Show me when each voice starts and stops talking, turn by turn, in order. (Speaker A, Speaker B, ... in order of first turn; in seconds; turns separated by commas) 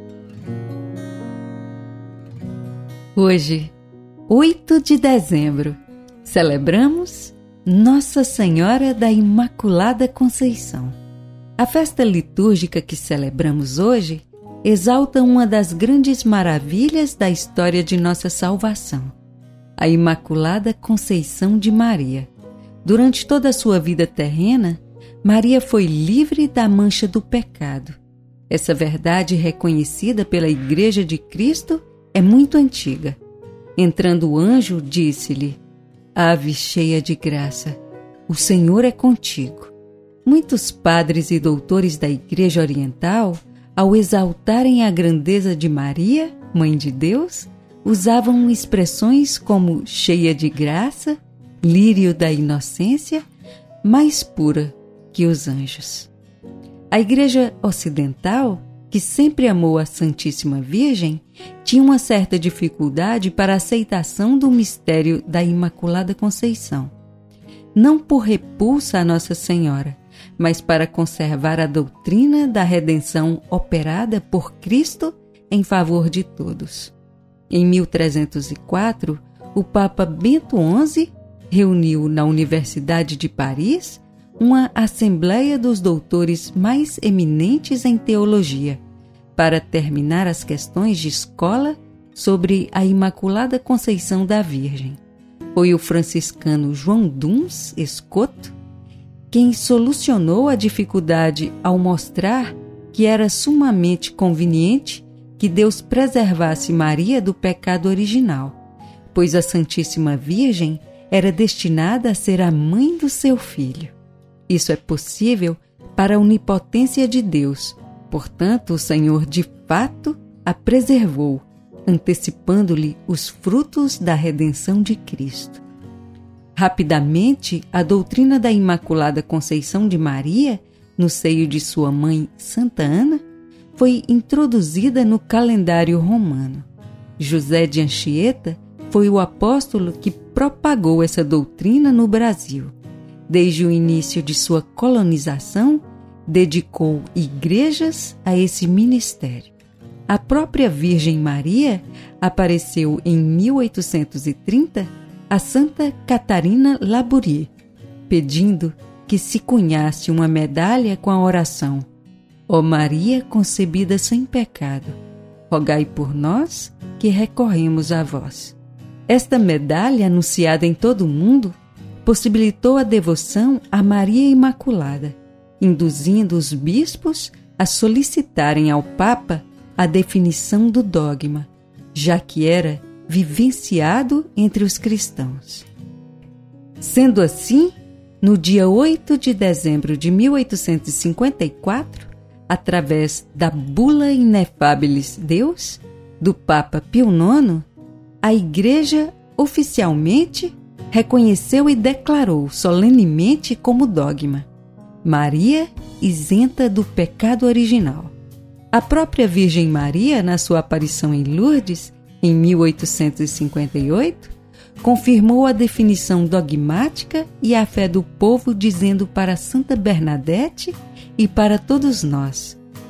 Speaker A: 3.1-3.7, Speaker A: 4.3-10.9, Speaker A: 11.6-19.1, Speaker A: 19.8-22.3, Speaker A: 22.8-28.0, Speaker A: 28.5-33.2, Speaker A: 33.8-35.6, Speaker A: 36.1-39.7, Speaker A: 40.2-53.2, Speaker A: 53.8-56.1, Speaker A: 56.9-66.9, Speaker A: 67.7-76.9, Speaker A: 77.5-88.8, Speaker A: 89.3-95.0, Speaker A: 95.5-98.5, Speaker A: 99.3-108.6, Speaker A: 109.1-113.9, Speaker A: 114.5-125.6, Speaker A: 126.5-133.2, Speaker A: 133.8-136.7, Speaker A: 137.2-142.7, Speaker A: 143.3-149.5, Speaker A: 150.1-157.5, Speaker A: 158.1-161.9, Speaker A: 162.5-165.0, Speaker A: 165.5-168.6, Speaker A: 169.1-185.7, Speaker A: 186.8-197.7, Speaker A: 198.2-204.5, Speaker A: 205.0-208.1, Speaker A: 208.7-222.6